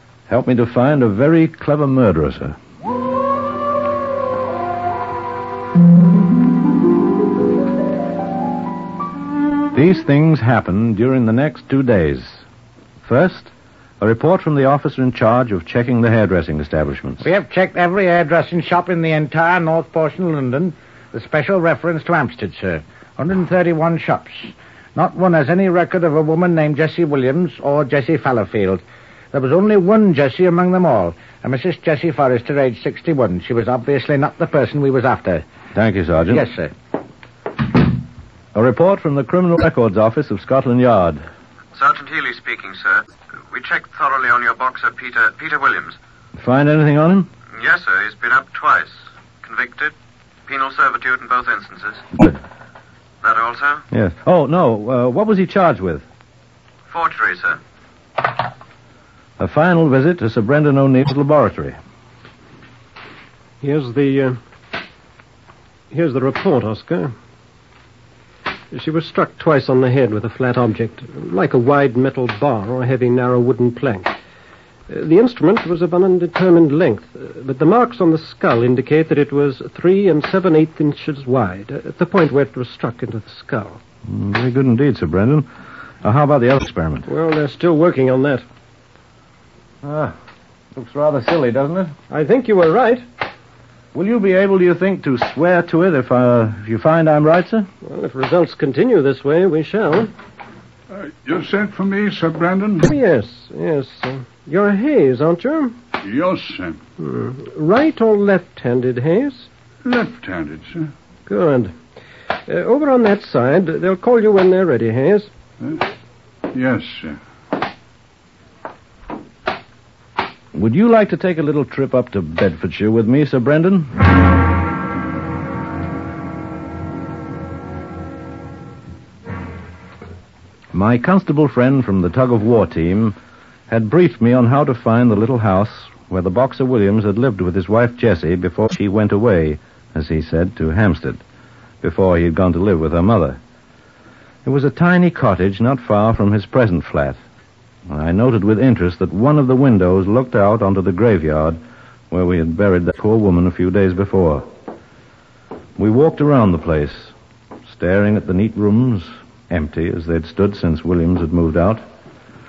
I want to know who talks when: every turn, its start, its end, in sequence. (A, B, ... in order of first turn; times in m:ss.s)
0:00.3-0:02.6 A
0:09.7-0:12.4 A
0:13.0-0:17.2 A
0:17.2-0:35.4 B
0:35.7-0:36.4 A
0:36.3-0:36.7 B
0:38.5-0:41.2 A
0:41.7-0:46.0 C
0:46.4-0:47.3 A
0:47.6-0:49.9 C
0:50.5-0:52.3 C
0:53.2-0:53.8 C
0:53.9-0:56.0 A
0:56.9-0:57.6 C
0:59.4-1:01.8 A
1:03.6-1:04.4 D
1:05.9-1:07.1 D
1:08.7-1:14.1 D
1:14.9-1:23.8 D
1:24.1-1:25.5 A
1:26.0-1:27.1 A
1:27.1-1:28.4 D
1:29.8-1:30.2 A
1:30.7-1:31.9 A
1:32.1-1:33.1 D
1:33.9-1:37.7 A
1:37.8-1:40.1 D
1:40.9-1:42.9 E
1:42.8-1:45.8 D
1:46.0-1:46.8 E
1:47.0-1:49.5 D
1:49.8-1:50.9 E
1:51.2-1:51.8 D
1:52.5-1:55.3 D
1:56.5-1:57.2 E
2:00.5-2:04.0 A
2:10.7-2:13.2 A
2:13.7-2:21.2 A
2:21.8-2:23.4 A
2:24.4-2:27.2 A
2:27.9-2:31.6 A
2:32.1-2:34.5 A
2:35.8-2:37.1 A
2:37.6-2:41.8 A